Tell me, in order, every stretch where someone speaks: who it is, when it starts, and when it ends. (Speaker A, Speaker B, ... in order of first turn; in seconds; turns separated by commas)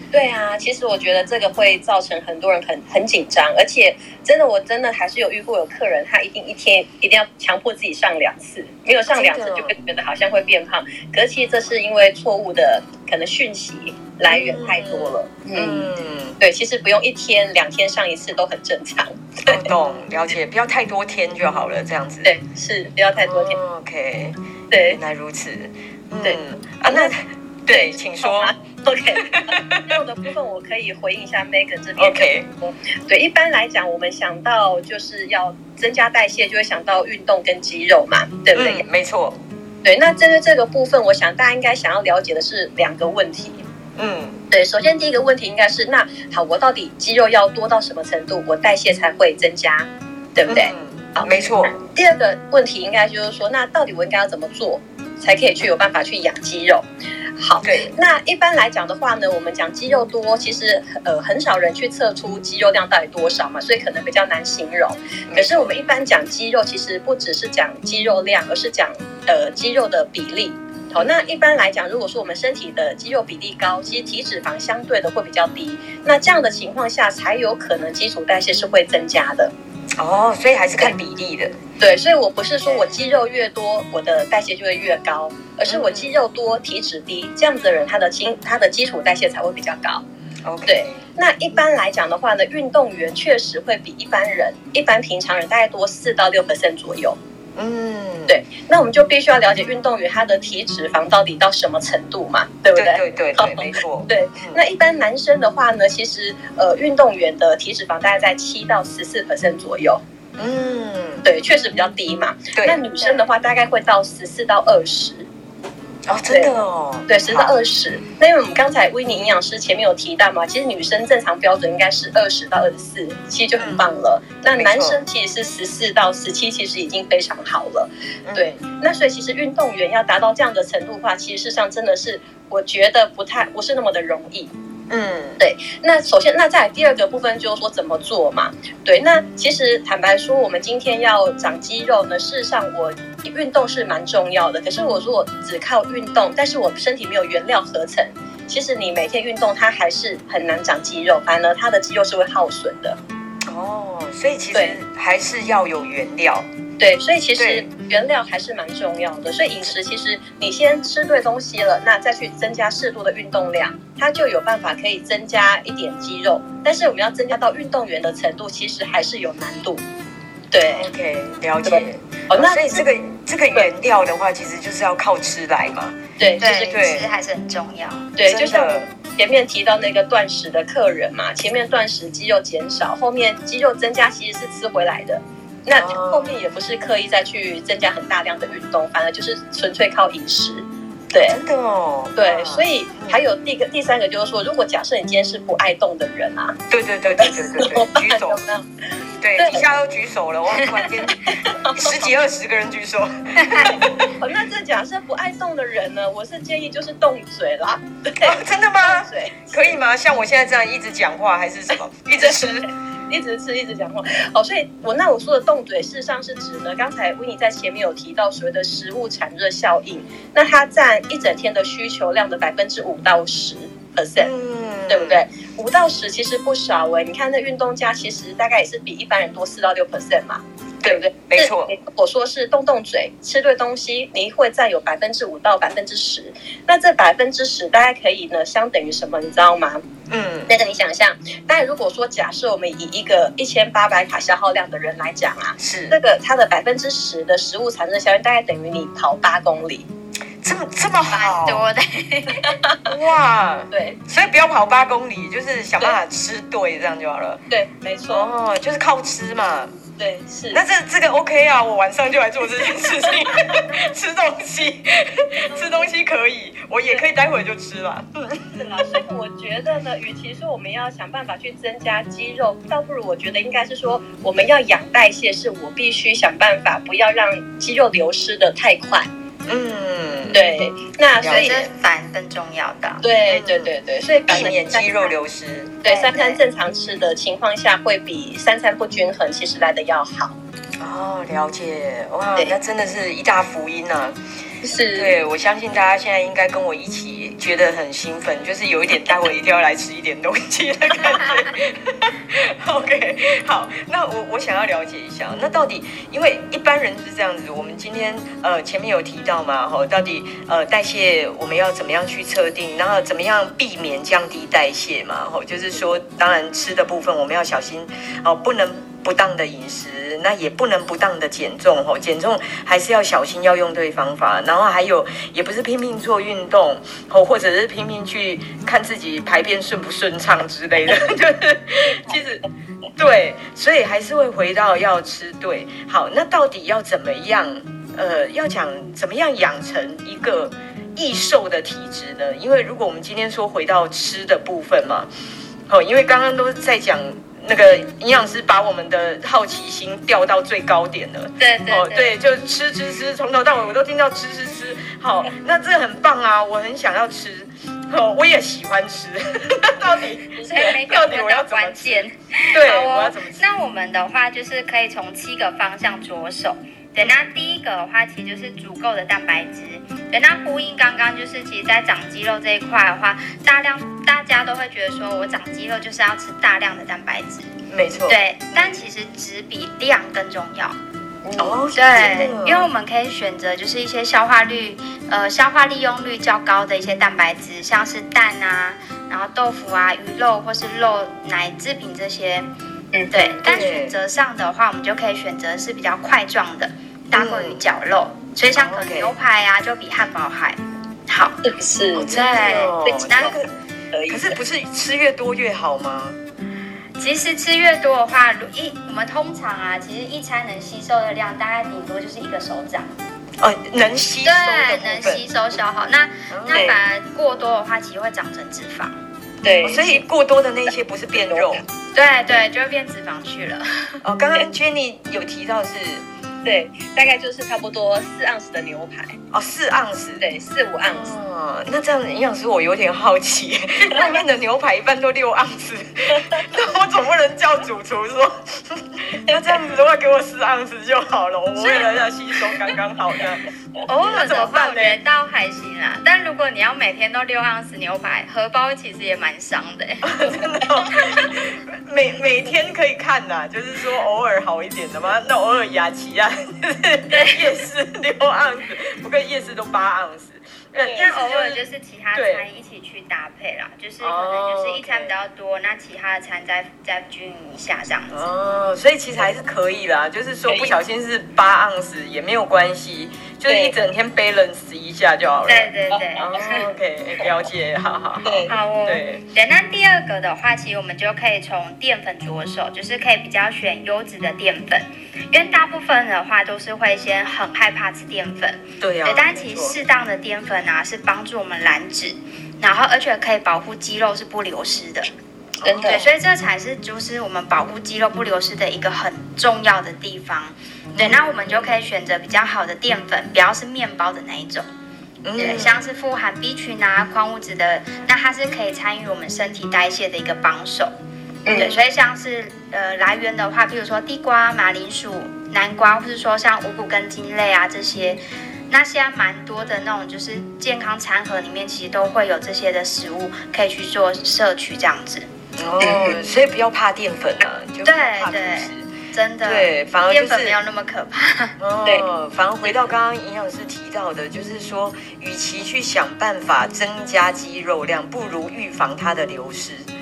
Speaker A: 0.1-15.9, Speaker B: 9.1-9.7, Speaker B: 14.3-16.4, Speaker A: 16.4-19.7, Speaker B: 19.5-22.3, Speaker A: 22.2-23.6, Speaker B: 23.2-28.5, Speaker A: 24.7-25.0, Speaker A: 26.2-27.1, Speaker A: 27.7-38.8, Speaker B: 29.1-29.9, Speaker B: 32.0-32.5, Speaker B: 38.5-39.4, Speaker A: 39.8-43.6, Speaker B: 44.0-44.4, Speaker A: 44.5-56.9, Speaker B: 50.5-51.8, Speaker A: 57.4-79.5, Speaker B: 57.6-57.9, Speaker B: 65.3-65.8, Speaker B: 71.0-71.2, Speaker B: 80.0-81.5, Speaker A: 81.8-90.0, Speaker B: 85.7-86.1, Speaker B: 90.4-91.0, Speaker A: 90.7-97.2, Speaker B: 97.6-98.4, Speaker A: 98.3-110.0, Speaker B: 102.7-104.6, Speaker B: 110.4-111.2, Speaker A: 111.2-115.3, Speaker B: 112.5-112.8, Speaker B: 116.1-117.5, Speaker A: 117.1-134.5, Speaker B: 123.6-123.8, Speaker B: 124.5-125.0, Speaker B: 128.2-128.6, Speaker B: 134.9-135.4, Speaker A: 135.4-153.0, Speaker B: 153.5-156.5, Speaker A: 156.8-169.8, Speaker B: 157.3-157.7, Speaker A: 170.5-170.9, Speaker B: 170.6-177.1, Speaker A: 171.6-172.9, Speaker A: 176.2-176.5, Speaker C: 176.4-178.1, Speaker A: 178.2-191.4, Speaker B: 178.2-178.9, Speaker B: 185.7-186.4, Speaker B: 191.2-193.2, Speaker A: 192.2-196.6, Speaker B: 196.7-198.4, Speaker A: 197.1-198.7, Speaker B: 199.2-204.2, Speaker A: 199.4-199.7, Speaker A: 201.3-202.1, Speaker A: 204.1-209.8, Speaker B: 208.2-212.7, Speaker A: 212.2-212.5, Speaker A: 213.1-224.3, Speaker B: 224.2-225.2, Speaker A: 224.9-239.8, Speaker B: 230.8-231.7, Speaker B: 240.1-240.5, Speaker A: 240.5-249.9, Speaker B: 245.6-246.0, Speaker B: 250.4-251.6, Speaker C: 251.1-252.5, Speaker A: 252.4-252.9, Speaker B: 252.8-257.4, Speaker A: 253.7-254.0, Speaker A: 257.5-258.3, Speaker B: 258.1-259.7, Speaker A: 260.0-260.6, Speaker B: 260.5-268.9, Speaker A: 265.5-265.9, Speaker A: 268.6-279.1, Speaker B: 279.5-280.4, Speaker A: 280.3-281.7, Speaker B: 281.2-281.6, Speaker C: 281.3-283.0, Speaker A: 283.0-285.1, Speaker B: 283.3-283.7, Speaker B: 284.3-285.7, Speaker C: 285.8-286.4, Speaker A: 285.8-290.4, Speaker B: 290.8-294.2, Speaker A: 294.6-295.1, Speaker B: 294.9-332.4, Speaker A: 331.9-332.2, Speaker B: 332.9-345.1, Speaker B: 345.7-363.4, Speaker C: 351.4-352.1, Speaker A: 360.4-360.7, Speaker C: 360.5-377.5, Speaker B: 377.7-378.7, Speaker C: 378.1-380.8, Speaker A: 381.2-381.6, Speaker B: 381.4-382.7, Speaker C: 381.7-392.5, Speaker A: 392.9-393.4, Speaker C: 393.1-401.4, Speaker B: 393.4-393.9, Speaker B: 397.1-397.6, Speaker B: 398.6-399.1, Speaker A: 401.4-402.2, Speaker B: 401.9-403.5, Speaker C: 402.0-403.3, Speaker A: 402.8-403.3, Speaker A: 403.9-404.4, Speaker B: 404.1-406.2, Speaker C: 407.0-412.9, Speaker B: 413.4-415.2, Speaker C: 414.2-418.9, Speaker B: 416.3-416.8, Speaker A: 416.5-416.8, Speaker A: 419.4-420.0, Speaker B: 419.6-421.6, Speaker A: 421.1-421.6, Speaker C: 421.9-424.0, Speaker B: 424.0-426.0, Speaker A: 426.4-429.2, Speaker B: 429.3-430.2, Speaker A: 430.2-431.1, Speaker B: 430.9-443.4, Speaker C: 443.9-451.3, Speaker B: 444.0-445.0, Speaker B: 450.0-461.6, Speaker C: 457.1-457.5, Speaker A: 460.8-461.1, Speaker C: 460.9-468.2, Speaker B: 462.1-462.4, Speaker B: 464.0-465.1, Speaker B: 468.1-479.2, Speaker A: 470.5-470.7, Speaker A: 473.5-473.8, Speaker C: 475.4-476.6, Speaker A: 475.9-476.2, Speaker A: 478.2-478.5, Speaker C: 478.5-495.1, Speaker A: 485.4-485.6, Speaker B: 488.8-489.8, Speaker B: 495.6-496.1, Speaker A: 495.6-496.1, Speaker C: 495.8-504.6, Speaker B: 500.9-501.7, Speaker B: 505.2-505.9, Speaker C: 505.4-510.9, Speaker A: 511.4-511.8, Speaker C: 511.5-525.3, Speaker B: 511.5-511.8, Speaker B: 525.6-528.9, Speaker A: 525.8-526.2, Speaker C: 527.8-531.5, Speaker B: 529.4-530.5, Speaker B: 531.6-539.9